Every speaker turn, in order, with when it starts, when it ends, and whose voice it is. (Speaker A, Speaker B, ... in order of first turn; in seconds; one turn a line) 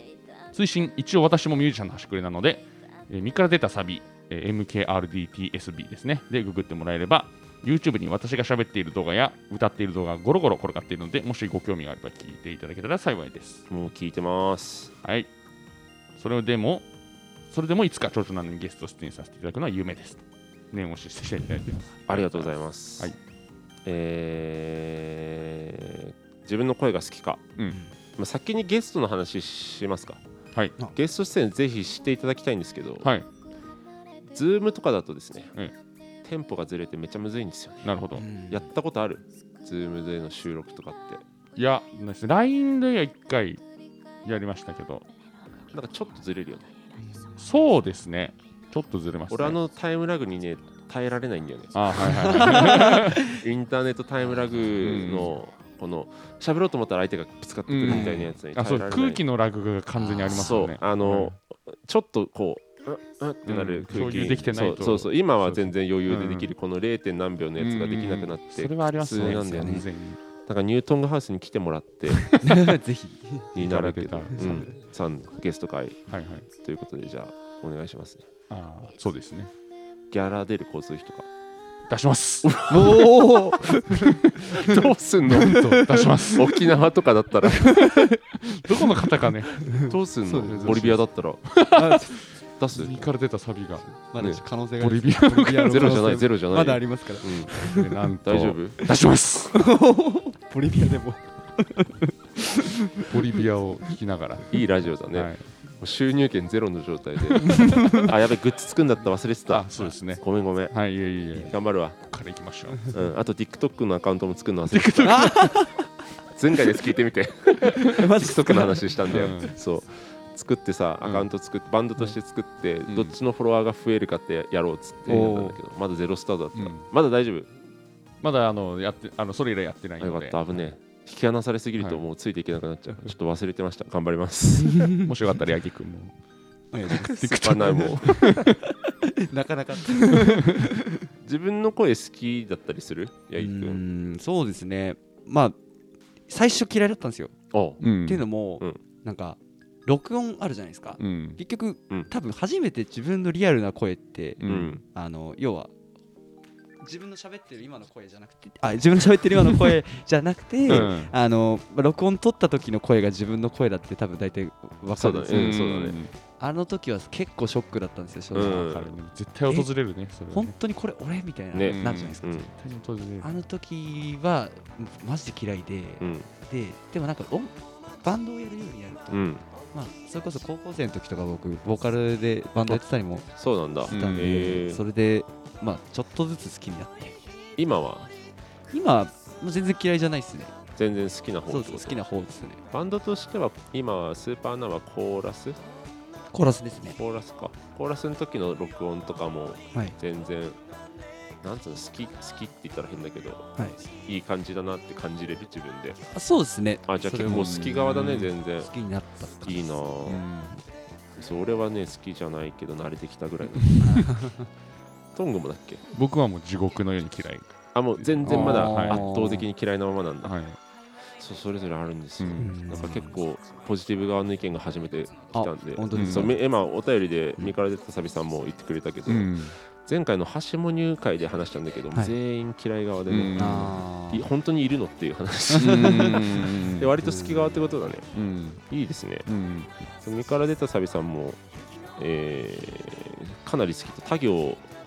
Speaker A: 0.5-13.6
Speaker B: 13.7-14.9
Speaker A: 15.0-15.3
Speaker A: 16.1-16.9
Speaker A: 17.5-23.2
Speaker B: 22.1-23.1
Speaker B: 23.8-27.5
Speaker B: 28.2-30.2
Speaker B: 30.9-33.1
Speaker B: 34.3-35.5
Speaker B: 36.2-37.9
Speaker A: 37.8-38.2
Speaker C: 38.1-38.7
Speaker B: 38.5-41.2
Speaker A: 41.5-43.6
Speaker A: 44.2-45.0
Speaker B: 45.7-46.7
Speaker C: 47.0-47.3
Speaker A: 47.4-49.6
Speaker B: 49.3-59.2
Speaker A: 51.7-53.3
Speaker C: 52.4-53.1
Speaker A: 54.8-55.3
Speaker A: 57.7-61.3
Speaker C: 57.9-58.3
Speaker C: 60.0-60.6
Speaker B: 60.3-69.9
Speaker A: 63.5-66.5
Speaker A: 67.6-70.2
Speaker C: 69.2-69.8
Speaker B: 70.4-72.4
Speaker C: 72.4-73.5
Speaker B: 73.5-78.3
Speaker A: 73.5-74.6
Speaker C: 74.4-74.7
Speaker A: 76.1-76.5
Speaker A: 78.5-79.5
Speaker B: 80.1-81.3
Speaker A: 81.9-83.1
Speaker B: 82.4-83.0
Speaker C: 82.7-86.2
Speaker B: 84.5-87.8
Speaker A: 85.2-86.7
Speaker C: 87.5-88.8
Speaker A: 87.7-89.7
Speaker C: 89.6-91.0
Speaker B: 89.7-91.5
Speaker A: 90.5-92.2
Speaker C: 91.7-92.2
Speaker B: 92.6-93.0
Speaker A: 92.7-93.9
Speaker C: 93.9-98.0
Speaker A: 94.8-96.1
Speaker B: 95.6-97.6
Speaker A: 97.5-99.7
Speaker B: 98.2-98.8
Speaker C: 99.5-103.4
Speaker A: 103.0-105.5
Speaker B: 104.5-110.7
Speaker A: 107.5-108.0
Speaker C: 107.6-108.0
Speaker A: 109.5-113.0
Speaker B: 111.4-112.0
Speaker B: 112.9-115.4
Speaker A: 114.7-115.7
Speaker C: 115.0-115.8
Speaker B: 116.3-127.5
Speaker C: 117.8-119.1
Speaker A: 119.1-119.5
Speaker A: 121.0-121.3
Speaker A: 122.9-123.1
Speaker C: 125.1-125.6
Speaker A: 126.5-126.9
Speaker A: 128.2-130.4
Speaker B: 130.0-134.9
Speaker C: 134.6-135.1
Speaker A: 135.0-136.1
Speaker C: 136.7-141.1
Speaker A: 136.9-138.6
Speaker B: 137.0-138.5
Speaker B: 141.2-143.8
Speaker C: 143.4-145.6
Speaker C: 146.3-147.3
Speaker B: 147.5-147.8
Speaker A: 147.8-148.3
Speaker C: 148.0-155.7
Speaker A: 151.0-151.4
Speaker A: 154.4-154.8
Speaker B: 154.4-154.8
Speaker C: 156.8-165.6
Speaker B: 160.7-160.9
Speaker A: 160.7-161.1
Speaker B: 165.0-166.0
Speaker A: 165.3-166.1
Speaker C: 166.4-168.7
Speaker B: 168.3-168.9
Speaker A: 168.3-170.5
Speaker C: 170.3-172.5
Speaker B: 171.5-172.5
Speaker A: 171.6-173.3
Speaker C: 173.2-183.3
Speaker B: 176.0-176.3
Speaker B: 179.1-179.4
Speaker B: 183.4-184.8
Speaker C: 183.9-187.2
Speaker A: 183.9-184.4
Speaker B: 187.6-188.1
Speaker C: 188.7-190.5
Speaker B: 190.8-192.0
Speaker C: 191.5-192.6
Speaker B: 192.7-195.6
Speaker C: 196.3-197.0
Speaker B: 197.0-200.6
Speaker B: 201.4-206.0
Speaker C: 206.1-207.7
Speaker B: 206.8-208.7
Speaker A: 207.2-208.3
Speaker C: 208.6-209.7
Speaker B: 209.4-210.2
Speaker A: 210.1-210.6
Speaker B: 211.2-214.1
Speaker A: 213.6-214.1
Speaker C: 213.8-214.5
Speaker B: 215.1-215.8
Speaker A: 215.9-219.0
Speaker B: 217.7-220.3
Speaker C: 218.2-219.4
Speaker A: 220.2-220.6
Speaker B: 221.2-238.1
Speaker A: 222.2-222.5
Speaker C: 222.4-223.2
Speaker C: 225.3-226.3
Speaker A: 225.9-226.3
Speaker A: 229.1-229.5
Speaker A: 233.1-233.8
Speaker C: 233.3-234.3
Speaker C: 235.5-237.7
Speaker A: 235.5-236.9
Speaker A: 238.1-238.6
Speaker B: 238.7-239.3
Speaker A: 239.2-239.8
Speaker B: 240.0-241.4
Speaker B: 241.9-244.7